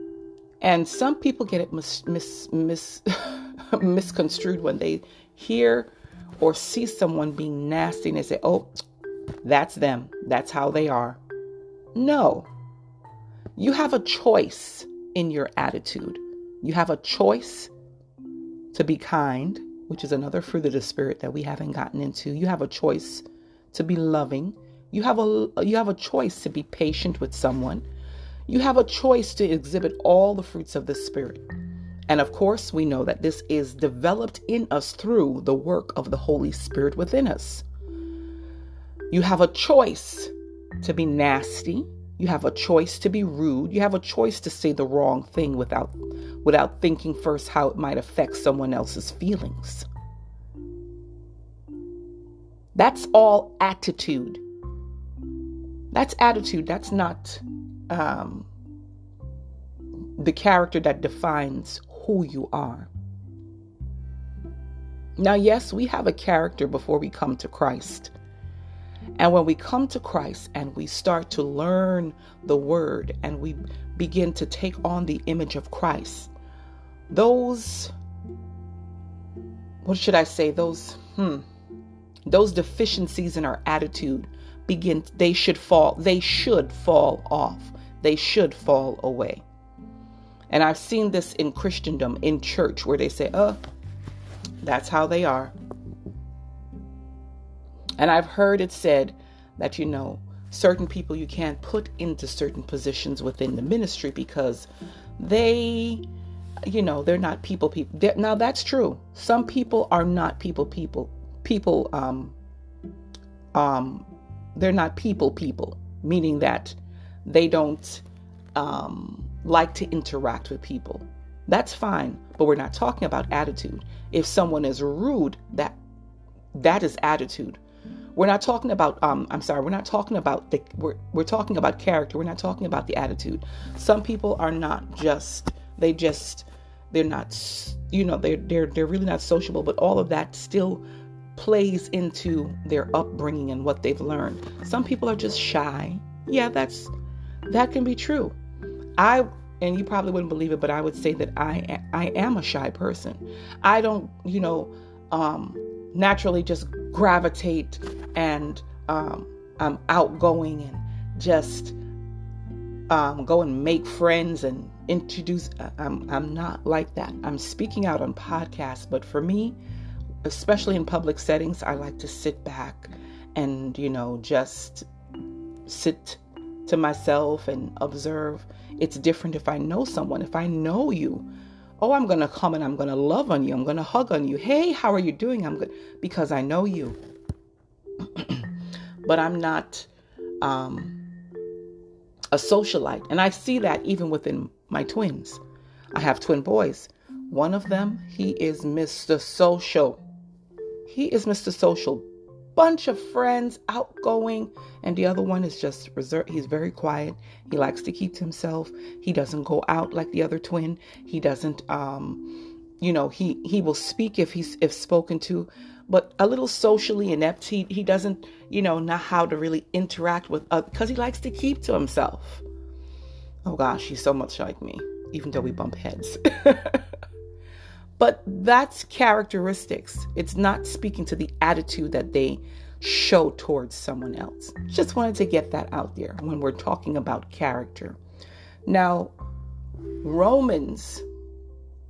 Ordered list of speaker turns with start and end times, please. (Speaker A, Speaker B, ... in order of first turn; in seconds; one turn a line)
Speaker A: 0.6-8.7
Speaker A: 9.4-11.2
Speaker A: 11.9-12.5
Speaker A: 13.6-17.7
Speaker A: 18.7-27.9
Speaker A: 28.5-31.4
Speaker A: 32.1-37.6
Speaker A: 39.1-49.9
Speaker A: 52.7-54.4
Speaker A: 55.9-58.5
Speaker A: 60.2-62.9
Speaker A: 65.2-68.1
Speaker A: 69.2-76.3
Speaker A: 77.1-77.9
Speaker A: 79.8-81.5
Speaker A: 82.2-89.4
Speaker A: 90.5-93.6
Speaker A: 94.6-95.5
Speaker A: 98.0-106.0
Speaker A: 106.7-112.3
Speaker A: 113.5-118.0
Speaker A: 118.5-125.8
Speaker A: 126.5-127.6
Speaker A: 128.1-140.8
Speaker A: 141.3-146.9
Speaker A: 147.5-148.3
Speaker A: 149.0-161.8
Speaker A: 162.9-169.6
Speaker A: 170.2-174.8
Speaker A: 175.7-181.2
Speaker A: 181.8-187.0
Speaker A: 188.0-188.5
Speaker A: 189.0-189.9
Speaker A: 190.4-191.0
Speaker A: 192.3-195.4
Speaker A: 195.9-200.0
Speaker A: 200.8-222.4
Speaker A: 223.4-226.8
Speaker A: 228.0-238.0
Speaker A: 238.7-239.1
Speaker A: 240.0-241.0